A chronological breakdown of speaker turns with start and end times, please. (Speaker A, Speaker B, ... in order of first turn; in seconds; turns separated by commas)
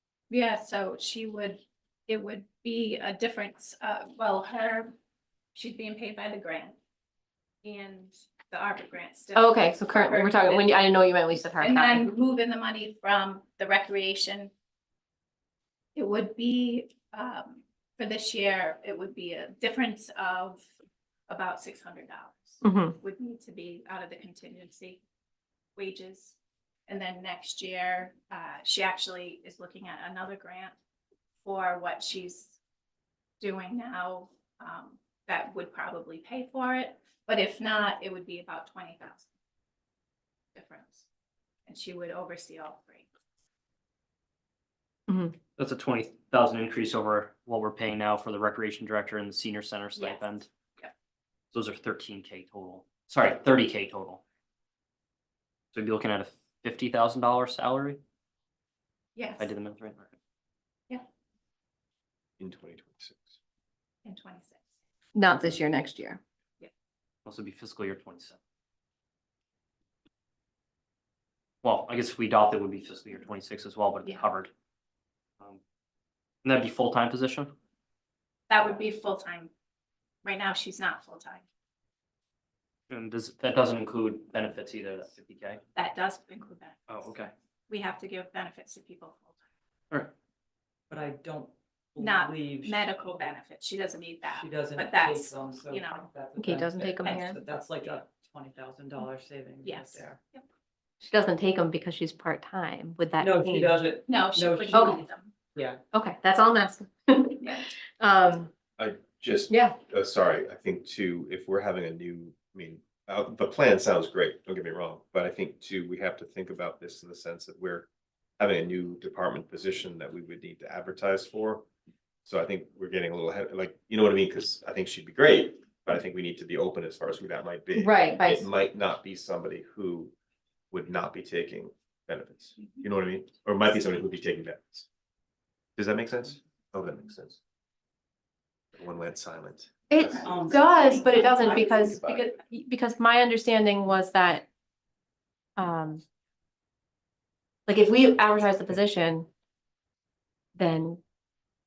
Speaker A: 0.3-4.9, Speaker A: 5.5-6.8, Speaker A: 7.6-10.7, Speaker B: 9.3-12.1, Speaker A: 11.6-14.5, Speaker A: 16.0-20.7, Speaker A: 21.3-25.0, Speaker B: 22.6-23.0, Speaker A: 25.8-26.4, Speaker A: 26.9-30.8, Speaker A: 31.4-32.6, Speaker A: 33.4-39.3, Speaker A: 40.5-41.1, Speaker A: 41.7-43.1, Speaker B: 45.1-45.4, Speaker C: 45.6-50.5, Speaker A: 50.0-50.9, Speaker C: 51.5-54.2, Speaker C: 55.7-58.0, Speaker A: 59.2-59.5, Speaker C: 59.4-60.1, Speaker D: 62.4-63.4, Speaker A: 64.0-64.6, Speaker B: 65.2-66.2, Speaker C: 67.3-68.4, Speaker C: 71.6-74.5, Speaker C: 76.4-77.5, Speaker A: 78.5-79.5, Speaker A: 80.2-81.4, Speaker C: 82.9-85.6, Speaker A: 85.8-86.9, Speaker C: 86.9-87.3, Speaker A: 87.7-89.3, Speaker E: 90.9-93.3, Speaker A: 92.0-96.1, Speaker E: 94.3-100.2, Speaker B: 96.4-97.4, Speaker A: 97.0-97.3, Speaker A: 99.6-100.4, Speaker B: 101.0-103.8, Speaker E: 103.2-105.8, Speaker A: 104.1-105.3, Speaker B: 104.7-105.0, Speaker B: 105.9-108.5, Speaker A: 107.4-107.7, Speaker D: 108.8-117.9, Speaker B: 109.5-109.8, Speaker D: 118.4-121.7, Speaker D: 122.2-130.1, Speaker B: 127.8-128.5, Speaker D: 130.7-134.9, Speaker D: 135.8-137.4, Speaker D: 138.7-142.3, Speaker B: 139.9-144.4, Speaker E: 140.2-142.0, Speaker B: 145.6-146.0, Speaker B: 147.7-149.3, Speaker B: 150.6-151.0